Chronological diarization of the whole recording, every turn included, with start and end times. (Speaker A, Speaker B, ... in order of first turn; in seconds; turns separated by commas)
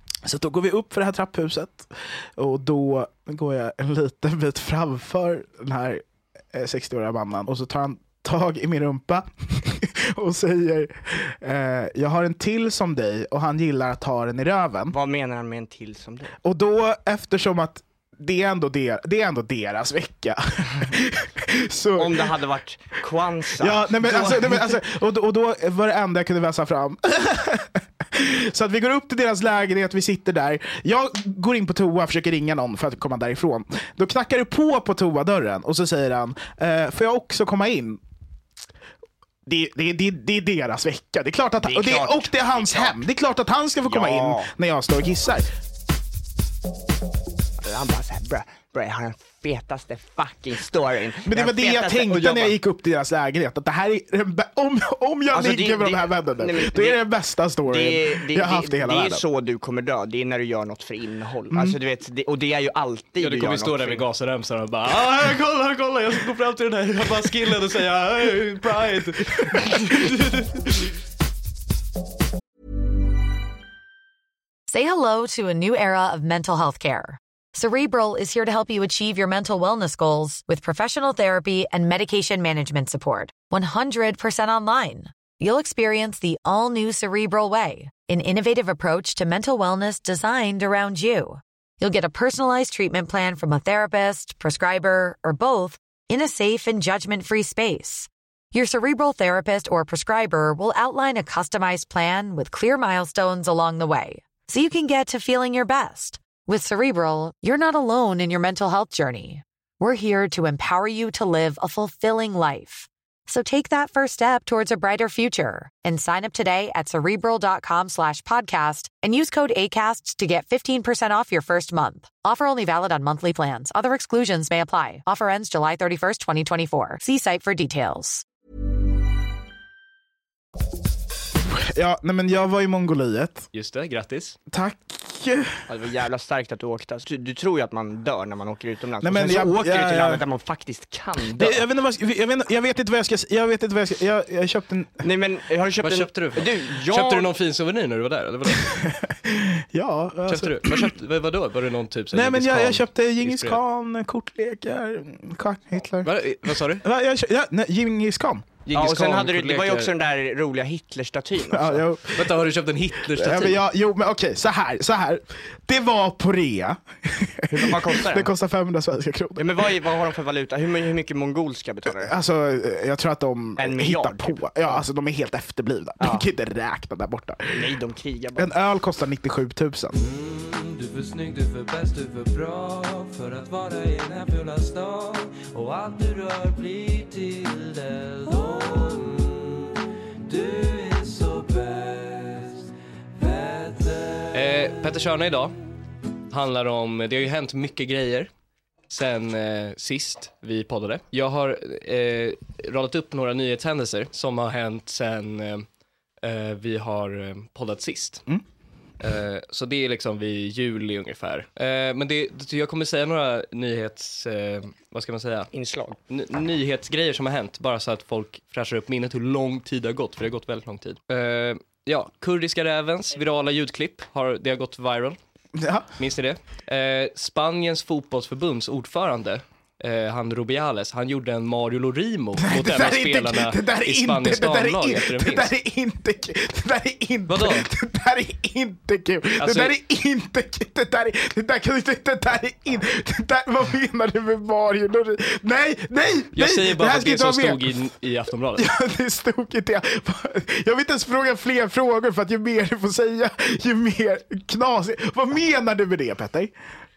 Speaker A: 0.2-14.9, Speaker B: 14.9-16.4, Speaker A: 16.4-22.3, Speaker B: 22.0-24.8, Speaker A: 23.6-38.0, Speaker A: 39.5-45.5, Speaker B: 41.6-43.0, Speaker B: 43.8-44.5, Speaker B: 47.6-52.6, Speaker A: 51.3-59.2, Speaker B: 55.3-57.0, Speaker B: 57.7-64.0, Speaker A: 61.5-61.8, Speaker C: 63.2-70.9, Speaker D: 74.7-128.2, Speaker A: 131.4-133.5, Speaker C: 133.5-134.4, Speaker A: 134.5-135.6, Speaker B: 135.7-141.6, Speaker A: 139.0-140.2, Speaker A: 141.3-145.1, Speaker B: 145.0-147.3, Speaker C: 145.8-148.9, Speaker A: 148.5-150.9, Speaker C: 150.3-153.6, Speaker A: 152.1-158.5, Speaker C: 156.0-156.8, Speaker C: 158.7-159.9, Speaker B: 158.7-161.9, Speaker A: 161.5-162.5, Speaker C: 162.2-163.6, Speaker A: 163.1-169.7, Speaker B: 167.5-168.3, Speaker B: 169.4-172.1, Speaker A: 171.9-177.7, Speaker B: 173.6-174.8, Speaker B: 176.0-176.3, Speaker B: 177.5-178.5, Speaker A: 178.4-180.0, Speaker E: 180.5-180.9, Speaker C: 180.7-187.4, Speaker E: 182.3-183.0, Speaker E: 184.0-189.7, Speaker C: 188.0-188.4, Speaker E: 190.3-192.6, Speaker C: 191.1-191.4, Speaker E: 193.2-194.2, Speaker C: 194.3-195.6, Speaker C: 196.3-198.3, Speaker C: 198.9-205.7, Speaker C: 206.2-208.2, Speaker C: 209.0-215.5, Speaker B: 215.5-216.0, Speaker C: 216.1-225.2, Speaker A: 225.6-225.9, Speaker C: 226.0-235.5, Speaker A: 232.4-247.7, Speaker C: 237.3-237.7, Speaker C: 239.4-239.7, Speaker C: 246.3-248.7, Speaker A: 248.6-256.5